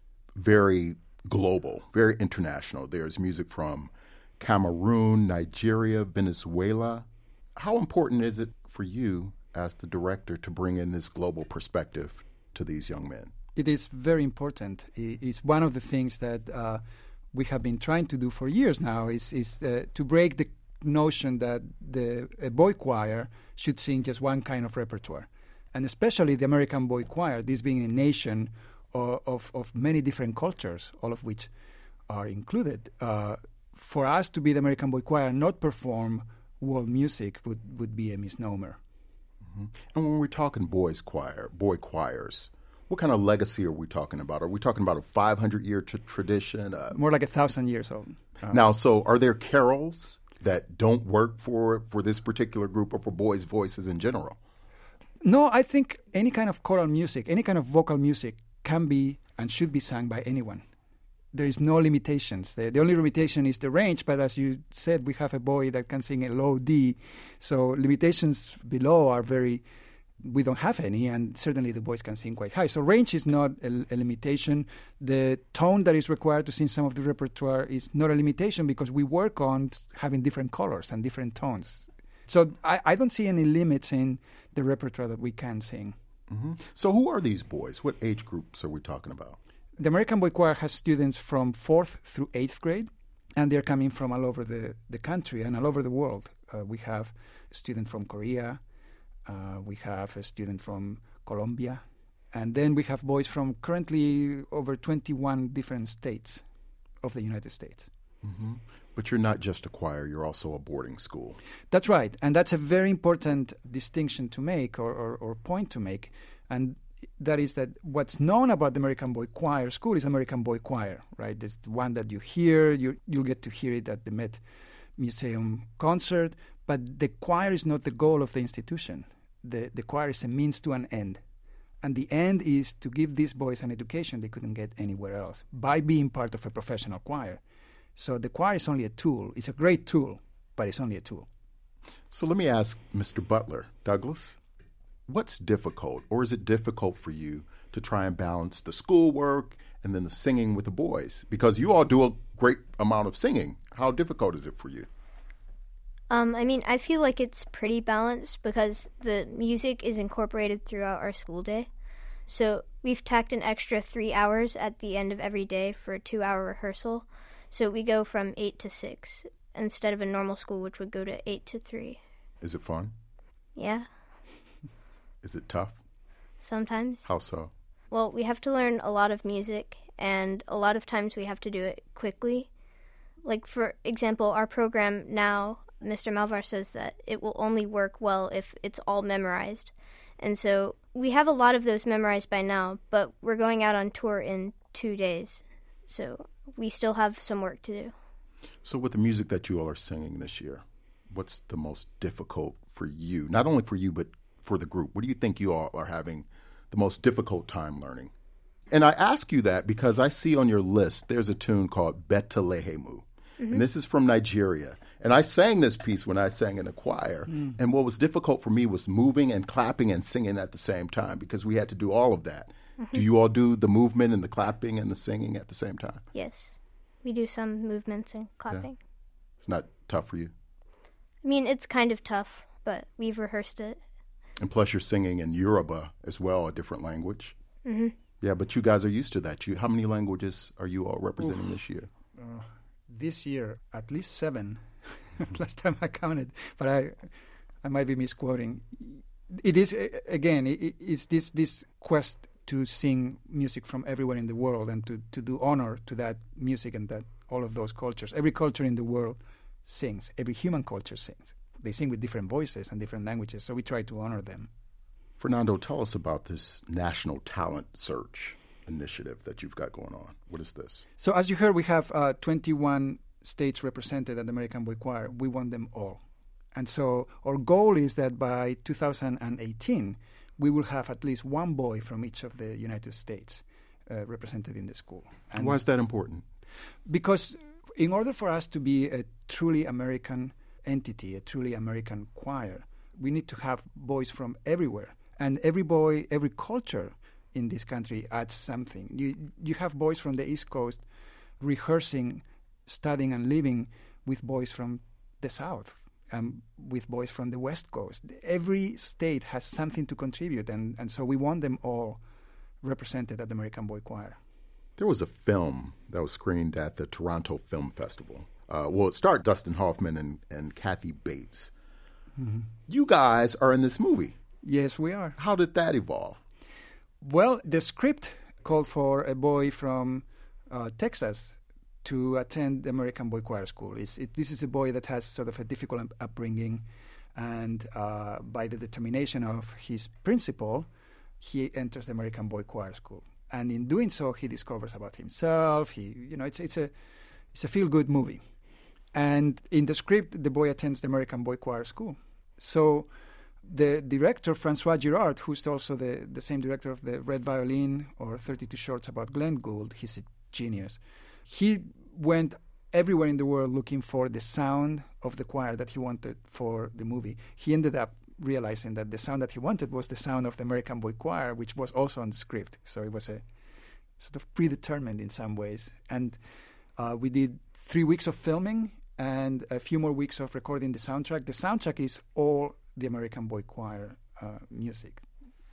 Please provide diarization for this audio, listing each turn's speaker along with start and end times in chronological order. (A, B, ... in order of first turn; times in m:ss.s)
0:00.4-0:13.3 A
0:13.6-0:31.5 B
0:32.1-0:38.8 B
0:39.5-0:47.0 A
0:46.9-0:48.6 B
0:48.5-0:54.4 A
0:55.2-1:00.6 B
1:01.3-1:09.6 B
1:10.2-1:26.0 B
1:26.3-1:29.4 A
1:29.8-1:38.6 B
1:39.2-1:46.5 B
1:47.0-1:47.9 B
1:48.2-1:51.4 A
1:51.7-2:04.4 B
2:05.0-2:11.2 B
2:11.8-2:17.4 B
2:18.0-2:21.3 B
2:22.1-2:24.4 A
2:25.1-2:34.9 A
2:36.1-2:41.7 C
2:42.3-2:52.0 C
2:52.4-2:52.9 A
2:53.6-2:53.9 C
2:55.2-2:55.8 A
2:56.4-2:57.1 C
2:57.0-2:57.5 A
2:57.9-3:02.5 C
3:03.2-3:17.9 C
3:18.6-3:28.1 A
3:28.7-3:46.0 A
3:46.2-3:48.8 C
3:49.4-3:50.3 A
3:51.2-3:53.8 C
3:54.4-3:57.4 A
3:57.6-3:58.0 C
3:58.2-4:01.9 A
4:01.2-4:01.5 B
4:02.2-4:24.5 B
4:25.2-4:30.9 A
4:31.0-4:36.0 B
4:36.5-4:45.6 B
4:45.3-4:46.2 A
4:46.9-5:00.8 B
5:01.4-5:12.0 B
5:12.6-5:14.2 B
5:14.8-5:21.5 A
5:22.2-5:22.5 B
5:22.7-5:24.2 A
5:24.4-5:25.2 B
5:25.2-5:26.2 A
5:27.0-5:40.7 B
5:41.2-5:46.7 B
5:47.3-5:48.2 B
5:48.9-5:52.9 B
5:53.4-6:13.2 B
6:14.0-6:16.2 B
6:16.8-6:25.0 B